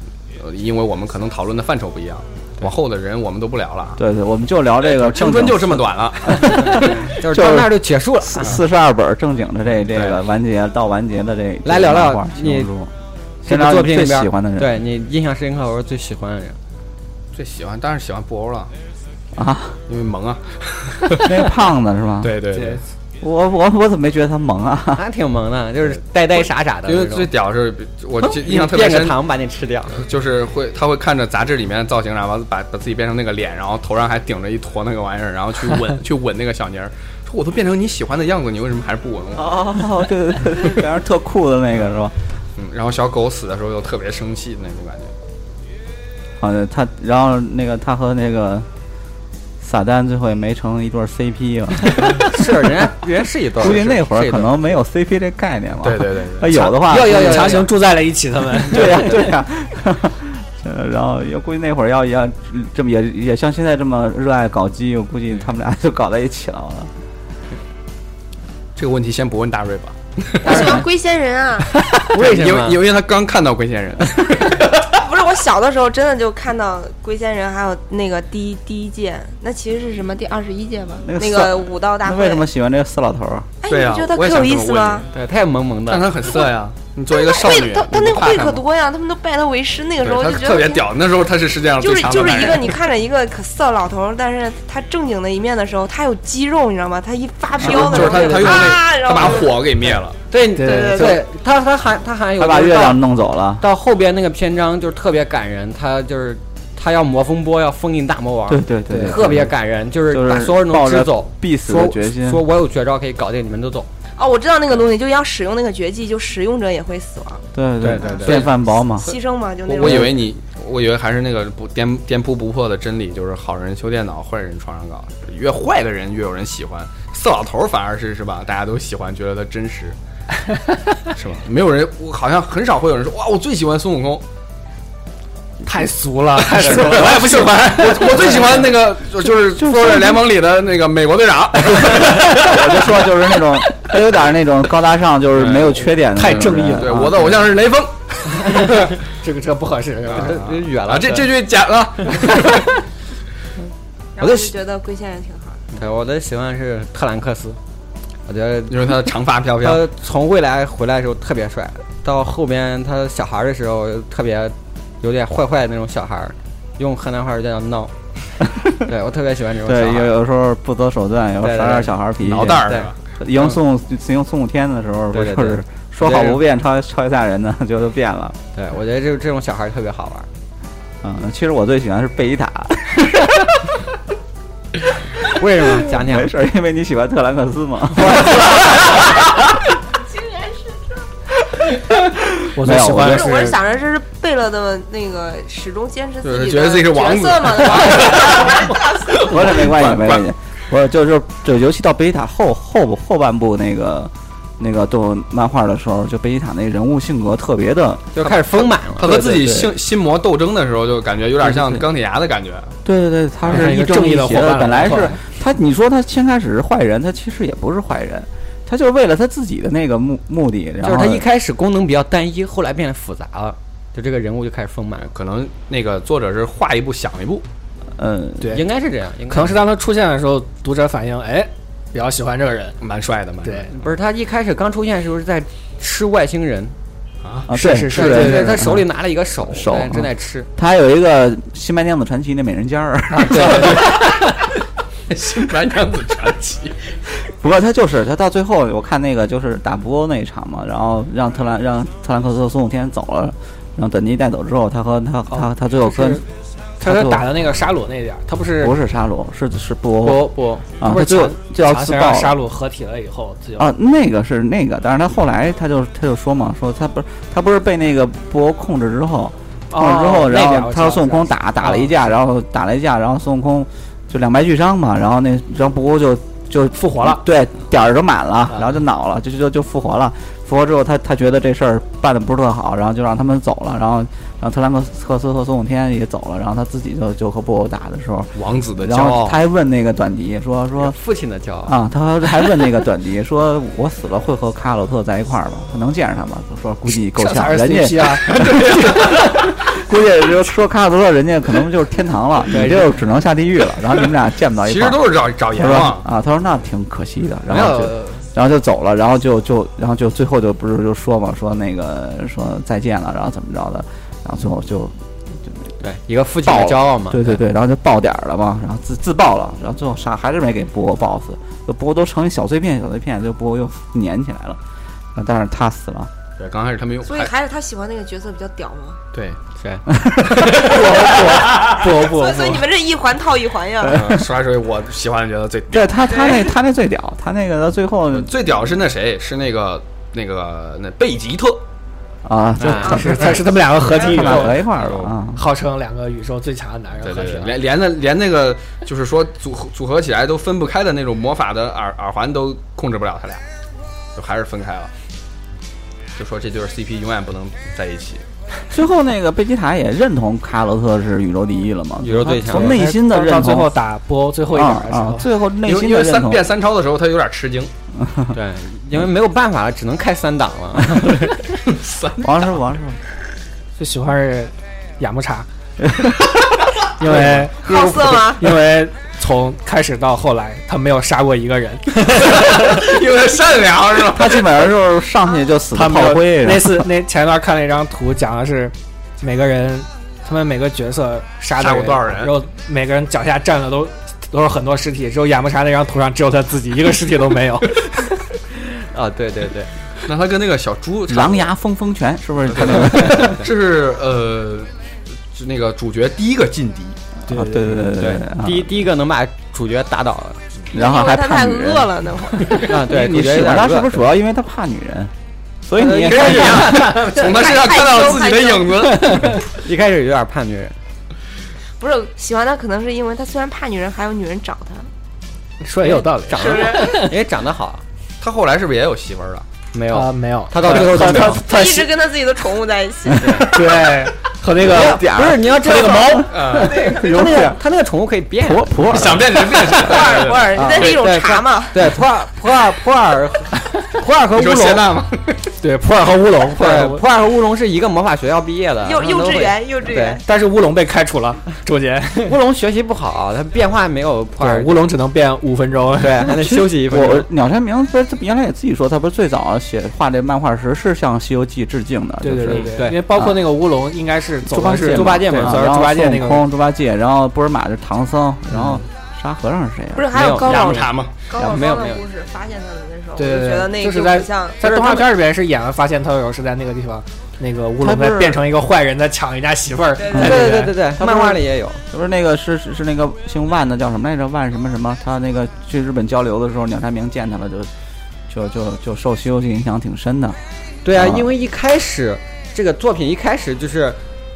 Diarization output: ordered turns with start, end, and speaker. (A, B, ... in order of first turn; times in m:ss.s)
0:00.4-0:04.0 A
0:04.0-0:12.9 B
0:04.8-0:06.9 A
0:06.5-0:08.6 C
0:09.9-0:10.2 A
0:11.6-0:12.7 C
0:13.4-0:14.8 B
0:13.4-0:16.6 C
0:17.3-0:18.7 A
0:19.4-0:19.8 B
0:19.9-0:21.4 A
0:21.2-0:22.4 B
0:22.2-0:22.8 A
0:22.5-0:22.8 D
0:23.2-0:25.0 B
0:25.0-0:27.3 C
0:26.8-0:29.2 A
0:28.3-0:30.0 C
0:30.0-0:40.1 A
0:39.4-0:42.2 B
0:42.6-0:45.1 A
0:46.4-0:48.7 B
0:49.6-0:52.3 B
0:52.1-0:54.6 C
0:53.6-0:57.6 B
0:55.8-0:56.6 A
0:56.5-0:59.3 D
0:56.9-0:57.7 C
0:58.7-1:06.9 B
1:08.8-1:10.8 A
1:10.4-1:11.7 E
1:10.4-1:10.8 C
1:11.9-1:12.8 C
1:12.1-1:14.9 A
1:14.9-1:22.4 E
1:21.0-1:23.5 B
1:23.6-1:25.1 E
1:23.7-1:25.1 A
1:25.1-1:26.1 C
1:25.9-1:28.6 A
1:27.1-1:30.8 E
1:30.0-1:32.8 A
1:31.8-1:39.7 E
1:37.5-1:40.2 A
1:37.8-1:38.7 D
1:40.3-1:43.0 C
1:40.6-1:41.2 D
1:40.6-1:41.2 E
1:42.4-1:43.6 B
1:43.6-1:53.9 C
1:48.5-1:49.5 B
1:48.9-1:49.3 D
1:50.1-1:52.4 B
1:54.2-1:57.4 E
1:57.5-1:59.2 B
1:57.8-1:58.5 C
1:58.1-2:00.2 E
1:59.7-2:10.0 A
1:59.8-2:00.1 B
2:10.5-2:10.8 D
2:11.1-2:14.2 A
2:15.6-2:18.4 D
2:16.4-2:22.4 A
2:19.2-2:20.3 B
2:21.8-2:27.5 B
2:25.4-2:25.7 A
2:26.0-2:27.0 D
2:26.3-2:28.9 A
2:28.5-2:30.4 D
2:30.1-2:32.7 A
2:30.1-2:31.3 C
2:34.2-2:35.6 E
2:34.2-2:34.5 C
2:35.7-2:37.6 C
2:38.3-2:39.0 C
2:38.7-2:39.8 A
2:39.6-2:47.9 C
2:48.8-2:50.1 C
2:49.7-2:58.4 B
2:51.4-2:52.0 C
2:52.2-2:53.0 A
2:52.6-2:53.6 C
2:55.1-2:56.4 C
2:58.5-3:00.3 C
3:01.0-3:03.7 B
3:05.2-3:06.3 C
3:05.6-3:09.4 B
3:08.1-3:08.7 D
3:09.9-3:10.9 E
3:11.6-3:13.4 B
3:12.5-3:13.6 D
3:13.0-3:19.4 E
3:16.2-3:20.3 A
3:19.1-3:28.1 B
3:28.2-3:29.4 C
3:28.2-3:32.8 A
3:29.0-3:29.8 B
3:31.5-3:31.8 B
3:32.8-3:41.3 B
3:33.5-3:35.2 D
3:40.8-3:45.1 C
3:45.1-3:47.4 A
3:48.0-3:48.6 B
3:48.4-3:48.7 D
3:48.5-3:49.6 C
3:49.3-3:52.8 D
3:52.8-3:53.7 A
3:53.4-3:53.7 D
3:53.7-3:56.8 C
3:57.5-3:58.9 B
3:57.5-3:58.7 D
3:57.9-4:00.5 C
3:59.5-4:04.0 B
4:03.2-4:04.1 D
4:03.6-4:04.0 A
4:05.1-4:06.8 A
4:07.4-4:16.2 B
4:15.3-4:16.2 D
4:16.8-4:17.3 B
4:16.8-4:18.7 D
4:18.6-4:22.4 B
4:20.0-4:21.0 C
4:20.8-4:23.7 D
4:23.6-4:51.0 B
4:29.7-4:32.1 D
4:36.7-4:37.2 D
4:48.4-4:49.4 A
4:50.8-4:51.8 C
4:51.7-5:15.6 B
4:57.1-4:59.0 D
4:58.3-4:59.5 A
5:02.5-5:02.9 C
5:04.6-5:06.1 A
5:07.5-5:08.2 C
5:15.8-5:17.4 C
5:16.5-5:24.6 B
5:25.2-5:26.1 B
5:26.4-5:27.3 A
5:27.1-5:29.0 E
5:29.1-5:29.4 A
5:29.6-5:29.9 C
5:29.9-5:31.6 B
5:30.4-5:32.7 D
5:31.2-5:34.0 E
5:33.9-5:34.2 B
5:33.9-5:36.3 A
5:35.7-5:38.3 B
5:38.1-5:41.6 A
5:42.2-5:43.3 B
5:42.6-5:43.4 C
5:42.8-5:44.7 D
5:43.9-5:45.4 B
5:44.8-5:45.1 A
5:45.3-5:47.6 D
5:47.0-5:53.4 A
5:54.2-5:54.9 A
5:56.2-5:58.2 A
5:58.7-6:03.8 B
6:02.0-6:02.8 C
6:02.5-6:05.3 D
6:04.5-6:06.5 B
6:05.6-6:07.7 A
6:08.0-6:08.3 B
6:08.3-6:11.4 C
6:11.7-6:12.4 A
6:12.2-6:13.0 B
6:13.8-6:15.5 D
6:15.8-6:16.5 B
6:17.0-6:22.8 D
6:17.1-6:17.4 A
6:17.6-6:18.5 E
6:22.0-6:24.6 A
6:24.1-6:26.9 B
6:25.7-6:38.2 D
6:31.6-6:32.4 A
6:38.9-6:39.7 C
6:40.0-6:41.5 A
6:41.1-6:43.4 B
6:42.5-6:44.7 A
6:45.3-6:47.0 A
6:47.3-6:48.7 B
6:47.3-6:47.9 D
6:47.9-6:50.4 C
6:50.7-6:51.9 B
6:50.7-6:52.7 E
6:52.5-6:54.1 C
6:52.7-6:55.1 B
6:55.7-6:56.9 B
6:55.8-6:56.9 C
6:56.0-6:57.3 D
6:56.2-6:59.4 A
6:57.2-6:58.8 E
6:58.8-6:59.4 D
6:59.5-7:00.8 C
7:01.8-7:04.9 E
7:05.6-7:07.1 D
7:05.8-7:07.8 C
7:06.4-7:07.0 E
7:08.2-7:09.5 A
7:09.7-7:11.5 C
7:09.9-7:11.8 D
7:10.6-7:11.8 B
7:11.4-7:13.6 E
7:13.2-7:13.5 C
7:13.4-7:17.6 D
7:14.6-7:17.6 B
7:14.7-7:19.2 C
7:16.3-7:16.8 A
7:16.7-7:17.1 E
7:18.4-7:19.6 B
7:18.9-7:20.9 A
7:19.7-7:21.8 E
7:20.6-7:24.9 C
7:20.6-7:20.9 B
7:24.3-7:25.5 A
7:25.6-7:27.0 D
7:26.6-7:30.2 C
7:28.8-7:30.2 E
7:30.2-7:32.4 D
7:32.2-7:34.9 C
7:34.4-7:36.3 D
7:36.0-7:37.3 C
7:36.3-7:43.4 B
7:42.2-7:46.4 D
7:42.7-7:43.0 C
7:44.5-7:50.2 B
7:44.8-7:45.6 C
7:50.0-7:54.7 E
7:50.1-7:52.0 C
7:50.3-7:51.2 A
7:53.2-8:00.7 D
7:54.7-7:55.0 C
7:57.8-7:58.4 B
8:00.0-8:00.4 E
8:00.1-8:07.7 B
8:00.1-8:01.8 C
8:08.3-8:10.4 B
8:10.8-8:14.0 C
8:10.9-8:11.3 B